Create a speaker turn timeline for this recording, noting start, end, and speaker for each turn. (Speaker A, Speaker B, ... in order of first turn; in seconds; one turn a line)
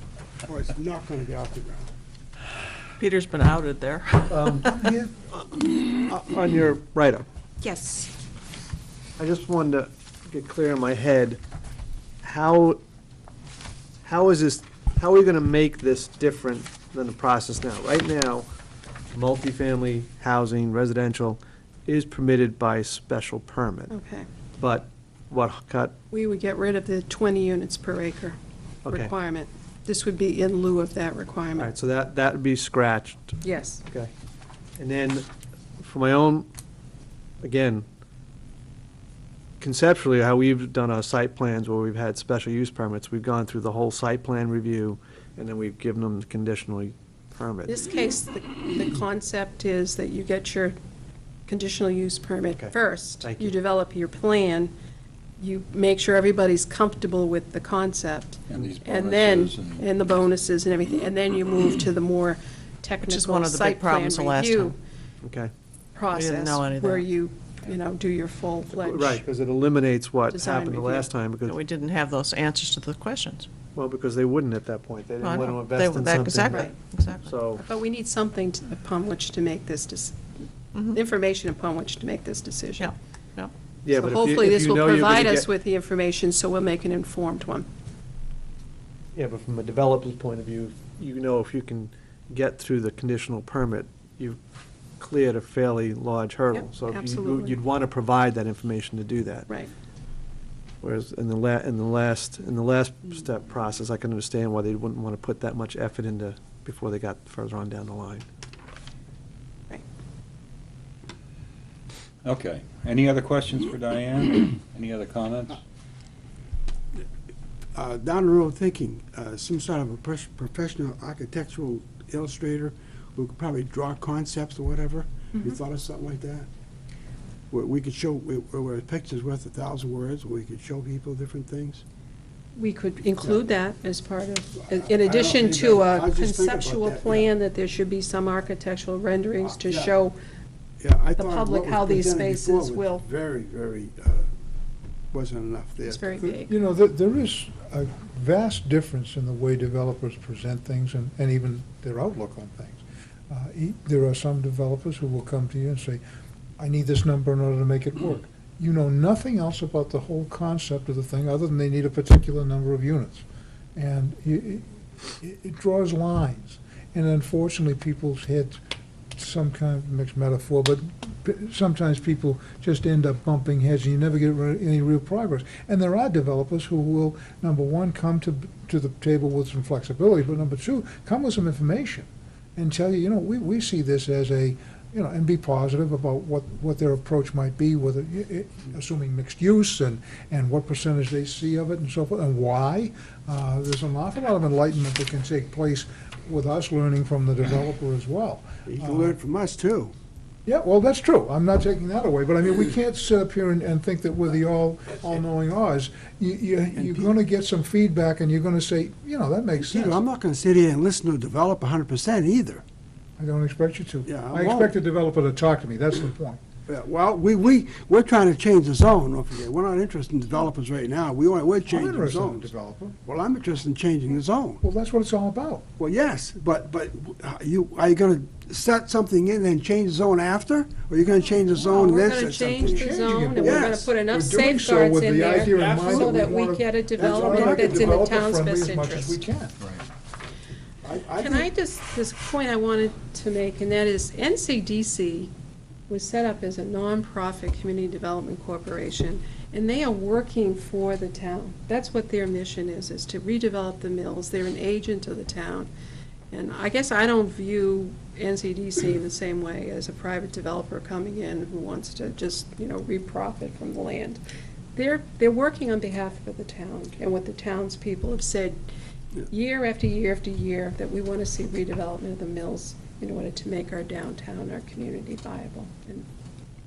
Speaker A: 0.5-1.9
Speaker B: 3.0-4.8
Speaker C: 4.3-4.8
Speaker D: 4.8-5.1
Speaker C: 6.0-7.2
Speaker E: 7.6-8.1
Speaker C: 9.2-11.4
Speaker C: 12.2-12.8
Speaker C: 14.0-18.5
Speaker C: 19.1-23.9
Speaker E: 23.9-24.3
Speaker C: 24.6-26.0
Speaker E: 26.1-31.7
Speaker C: 28.8-29.1
Speaker C: 31.6-34.1
Speaker E: 33.4-33.9
Speaker C: 34.8-35.2
Speaker C: 35.8-36.5
Speaker C: 37.4-37.9
Speaker C: 39.6-47.9
Speaker E: 47.6-50.7
Speaker E: 51.5-54.7
Speaker C: 52.5-53.5
Speaker E: 55.4-64.8
Speaker F: 58.5-59.8
Speaker B: 63.0-64.7
Speaker C: 65.2-65.5
Speaker E: 65.9-69.3
Speaker B: 66.1-67.1
Speaker C: 68.7-71.5
Speaker E: 70.3-71.1
Speaker B: 71.5-73.5
Speaker C: 73.7-76.7
Speaker B: 75.2-77.4
Speaker E: 76.5-76.7
Speaker C: 77.2-77.6
Speaker E: 77.5-82.9
Speaker B: 82.8-83.5
Speaker C: 83.8-85.5
Speaker E: 83.9-87.7
Speaker C: 89.1-94.4
Speaker C: 95.0-99.5
Speaker E: 96.5-97.6
Speaker C: 100.8-108.2
Speaker F: 112.2-115.6
Speaker A: 117.7-126.5
Speaker A: 127.5-131.8
Speaker E: 132.6-140.2
Speaker A: 134.7-137.3
Speaker A: 139.4-139.9
Speaker A: 140.8-144.3
Speaker E: 141.2-143.0
Speaker A: 145.1-146.3
Speaker E: 145.8-146.5
Speaker D: 146.3-156.0
Speaker D: 156.6-163.2
Speaker D: 163.8-168.6
Speaker D: 169.2-199.2
Speaker A: 198.7-199.9
Speaker D: 200.4-210.0
Speaker A: 206.8-207.1
Speaker A: 209.6-212.6
Speaker D: 213.2-216.4
Speaker A: 214.1-214.7
Speaker A: 216.7-222.5
Speaker D: 221.7-223.0
Speaker A: 223.0-224.6
Speaker D: 224.6-225.7
Speaker A: 225.8-233.9
Speaker E: 231.6-239.2
Speaker D: 232.6-239.6
Speaker A: 235.5-236.3
Speaker A: 237.0-238.0
Speaker A: 240.8-241.5
Speaker E: 241.2-245.3
Speaker E: 245.9-255.7
Speaker E: 256.3-264.2
Speaker E: 264.7-268.6
Speaker E: 269.3-276.1